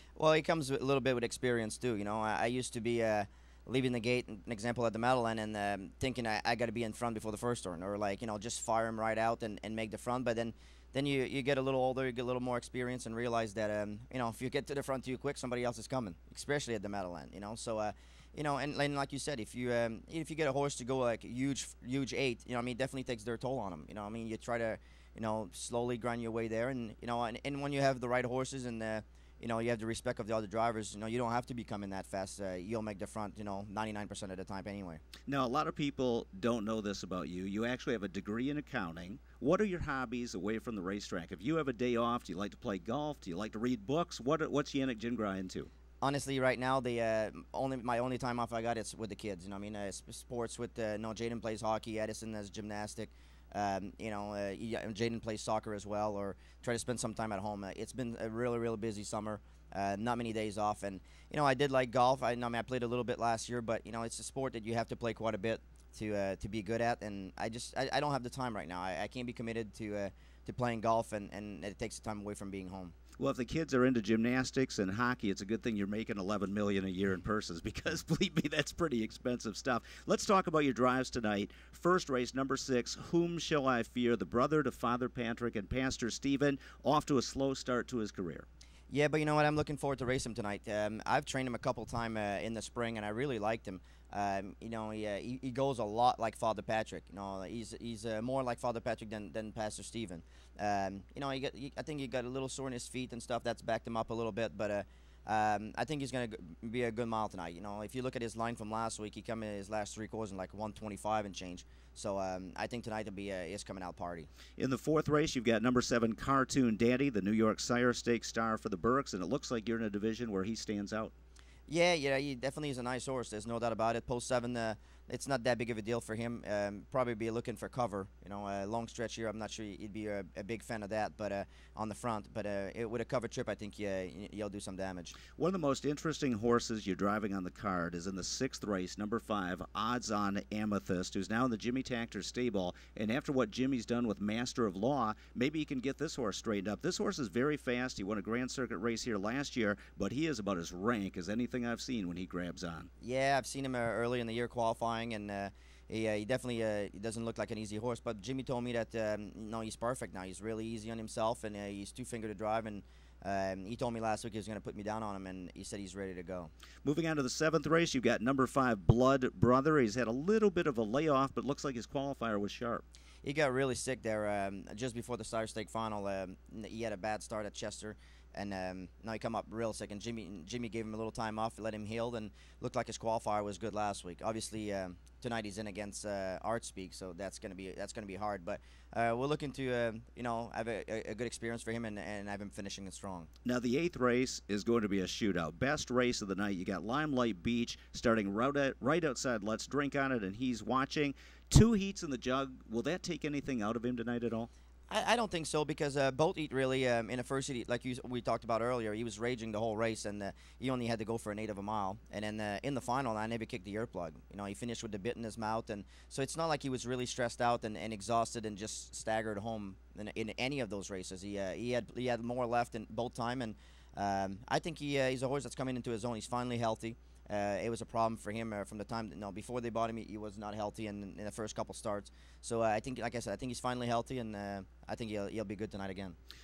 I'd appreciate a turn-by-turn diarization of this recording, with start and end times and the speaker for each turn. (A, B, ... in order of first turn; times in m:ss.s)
0:00.2-0:35.0 A
0:35.3-0:45.7 B
0:46.0-1:13.0 A
1:13.2-1:28.5 B
1:28.9-1:54.3 A
1:54.6-2:01.1 B
2:01.7-2:15.2 A
2:15.4-2:32.9 B
2:33.0-2:46.5 A
2:46.8-2:52.8 B
2:53.2-3:13.3 A
3:13.4-3:24.5 B
3:24.9-3:56.2 A